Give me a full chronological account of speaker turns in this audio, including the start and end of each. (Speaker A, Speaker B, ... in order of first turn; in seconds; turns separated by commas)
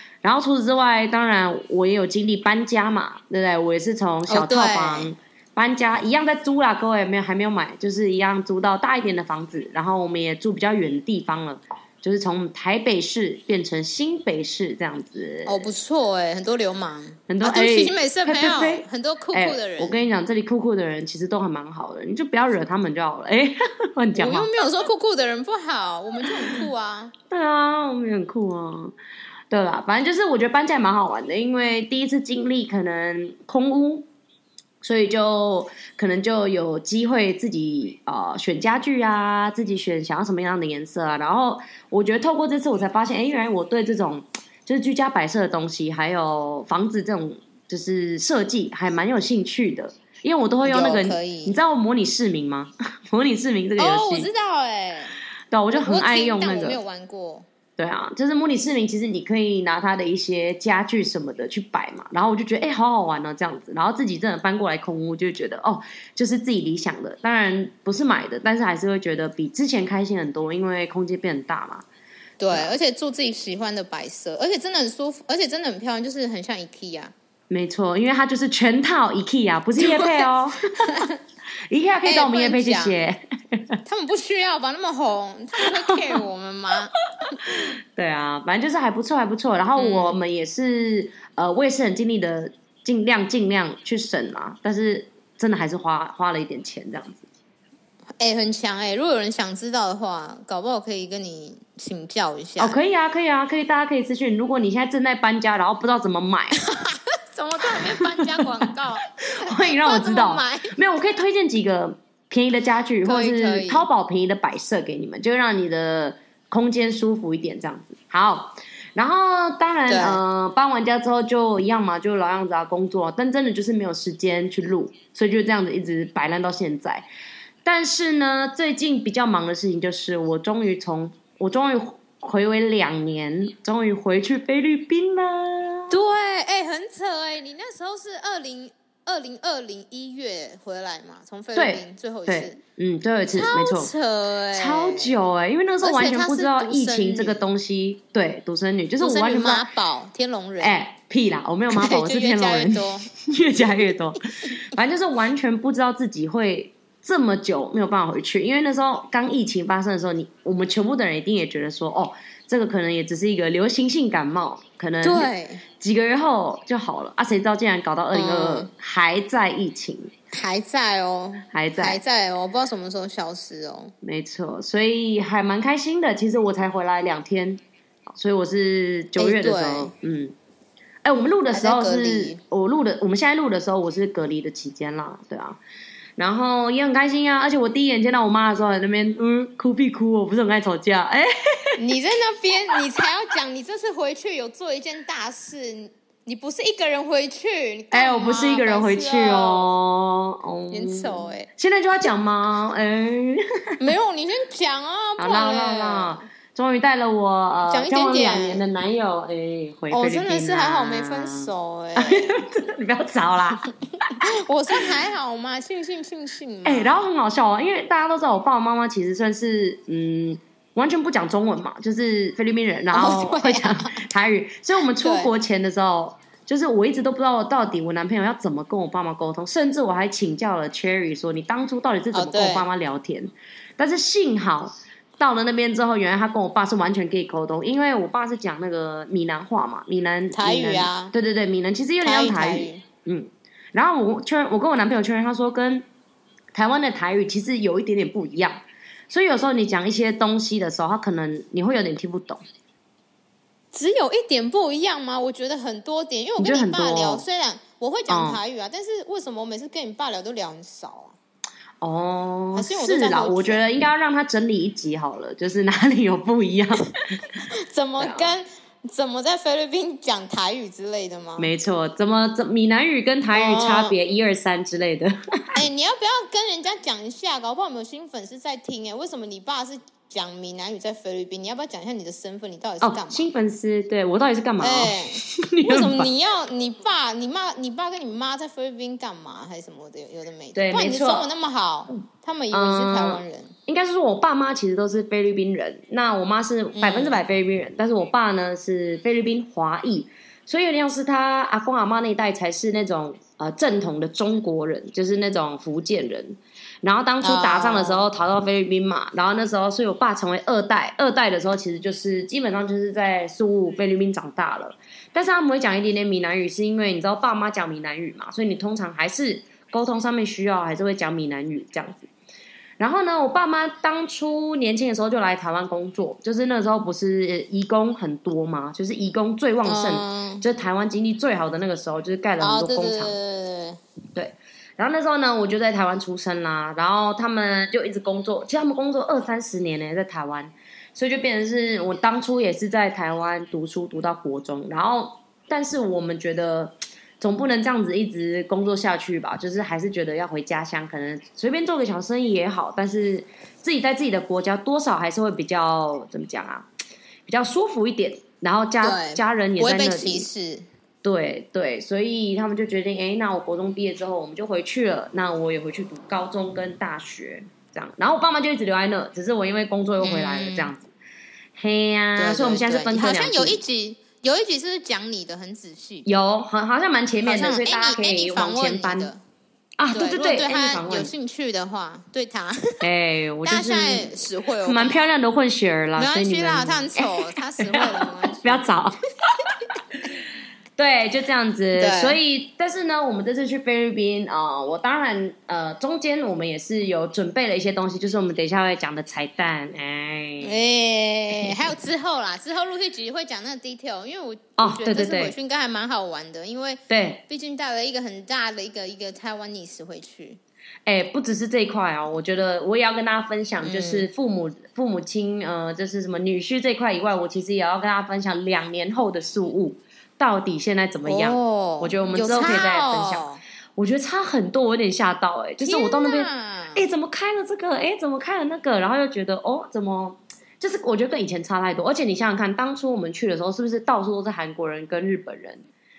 Speaker A: 0.2-15.6, Speaker B: 4.3-5.1, Speaker B: 15.4-20.0, Speaker A: 17.3-24.5, Speaker B: 24.1-27.1, Speaker A: 27.3-28.9, Speaker A: 29.5-34.0, Speaker A: 34.8-54.3, Speaker B: 50.6-51.6, Speaker B: 53.8-55.1, Speaker A: 55.5-56.8, Speaker B: 55.7-57.5, Speaker A: 57.8-71.8, Speaker B: 72.4-77.1, Speaker A: 77.5-81.1, Speaker B: 79.8-81.2, Speaker A: 81.7-83.8, Speaker B: 82.0-83.0, Speaker B: 83.8-87.3, Speaker A: 85.8-86.1, Speaker A: 87.4-97.2, Speaker B: 89.8-90.2, Speaker B: 98.2-102.8, Speaker A: 102.6-106.6, Speaker B: 106.6-110.8, Speaker A: 107.6-108.7, Speaker A: 109.2-127.1, Speaker B: 113.0-113.9, Speaker B: 119.9-120.2, Speaker A: 127.6-136.0, Speaker B: 135.9-142.6, Speaker A: 141.5-143.9, Speaker B: 143.3-145.1, Speaker A: 144.5-149.7, Speaker B: 145.8-147.4, Speaker B: 149.0-150.8, Speaker A: 150.6-170.1, Speaker B: 151.7-153.1, Speaker B: 153.6-153.9, Speaker B: 165.0-165.6, Speaker B: 168.1-168.7, Speaker B: 170.3-173.9, Speaker A: 171.5-172.0, Speaker A: 174.0-177.6, Speaker A: 178.1-180.3, Speaker B: 179.2-179.9, Speaker A: 181.0-185.6, Speaker B: 181.5-182.4, Speaker A: 186.2-191.8, Speaker B: 191.8-199.7, Speaker A: 197.9-203.8, Speaker B: 200.7-201.5, Speaker B: 203.8-206.2, Speaker A: 205.2-214.2, Speaker B: 207.7-208.6, Speaker B: 209.9-212.3, Speaker B: 214.2-217.1, Speaker A: 216.6-245.8, Speaker B: 222.9-224.0, Speaker B: 224.9-225.3, Speaker B: 232.1-232.7, Speaker B: 240.3-241.1, Speaker B: 242.0-242.8, Speaker A: 246.5-252.4, Speaker B: 253.7-261.2, Speaker A: 256.4-257.2, Speaker A: 258.1-258.4, Speaker A: 261.8-267.4, Speaker B: 262.5-263.7, Speaker B: 267.5-271.5, Speaker A: 268.0-268.3, Speaker A: 271.4-275.5, Speaker B: 273.3-273.9, Speaker B: 275.5-283.3, Speaker A: 282.8-286.1, Speaker B: 284.6-293.5, Speaker A: 290.5-291.3, Speaker A: 292.5-322.1, Speaker B: 296.7-297.2, Speaker B: 307.2-308.1, Speaker A: 322.8-333.1, Speaker B: 329.6-330.4, Speaker B: 332.4-333.8, Speaker A: 334.1-356.7, Speaker A: 357.2-360.3, Speaker B: 358.8-360.7, Speaker A: 361.0-370.9, Speaker B: 370.0-370.7, Speaker A: 371.5-373.6, Speaker B: 372.1-376.2, Speaker A: 376.0-379.1, Speaker B: 377.2-379.2, Speaker A: 379.8-381.1, Speaker B: 379.9-382.8, Speaker A: 382.8-384.1, Speaker B: 383.4-385.1, Speaker A: 384.6-389.0, Speaker B: 385.9-388.9, Speaker A: 390.8-400.5, Speaker B: 391.8-392.2, Speaker B: 400.4-410.4, Speaker A: 401.3-401.6, Speaker A: 404.6-405.3, Speaker A: 406.9-407.2, Speaker A: 410.9-423.2, Speaker B: 413.6-414.1, Speaker B: 421.0-423.4, Speaker A: 423.8-435.6, Speaker B: 425.6-426.9